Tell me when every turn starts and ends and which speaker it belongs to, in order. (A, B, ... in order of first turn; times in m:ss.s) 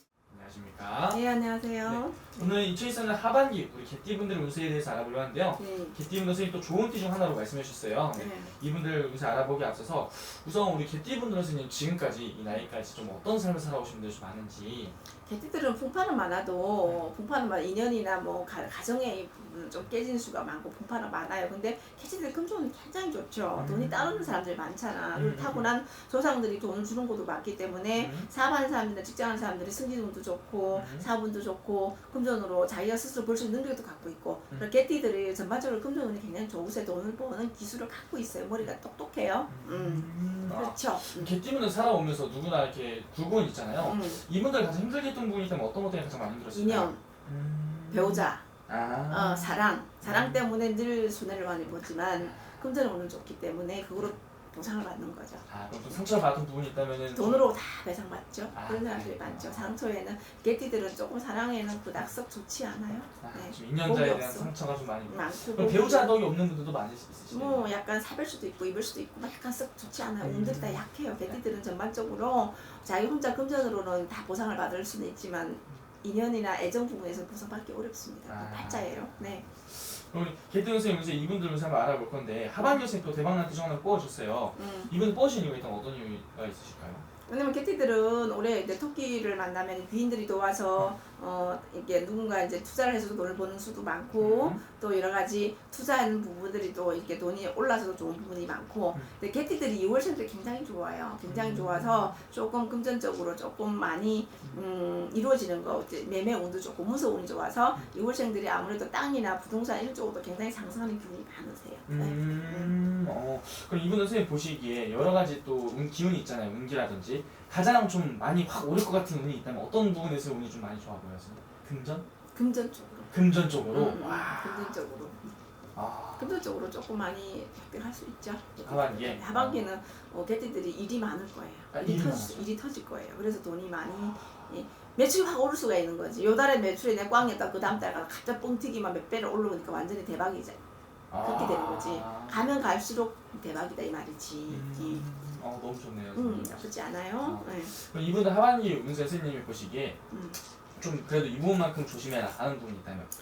0:00.3-0:01.2 A
0:01.1-0:02.3 B
0:01.8-0:14.9 A
0:05.6-0:05.9 B
0:08.1-0:08.5 B
0:15.2-0:41.3 B
0:23.6-0:24.4 A
0:25.1-0:25.7 A
0:27.9-0:28.3 A
0:30.7-0:31.1 A
0:39.5-0:50.5 A
0:43.8-0:44.2 B
0:46.5-0:47.0 B
0:47.9-0:48.4 B
0:49.1-0:55.4 B
0:52.2-0:52.6 A
0:55.5-0:57.5 A
0:57.1-1:04.5 B
0:58.5-0:59.7 A
1:03.2-1:07.7 A
1:05.0-1:06.2 B
1:07.3-1:19.4 B
1:10.2-1:11.4 A
1:18.3-1:27.0 A
1:24.6-1:24.9 B
1:27.3-1:52.8 B
1:34.2-1:34.6 A
1:41.2-1:42.2 A
1:51.9-2:02.1 A
2:02.3-2:03.1 B
2:03.1-2:04.8 A
2:03.7-2:05.4 B
2:05.7-2:06.4 A
2:06.2-2:20.6 B
2:08.6-2:09.7 A
2:11.7-2:12.5 A
2:21.1-2:22.5 A
2:21.2-2:25.0 B
2:24.5-2:26.7 A
2:26.1-2:27.7 B
2:27.2-2:30.0 A
2:30.1-2:30.4 B
2:30.8-2:33.1 A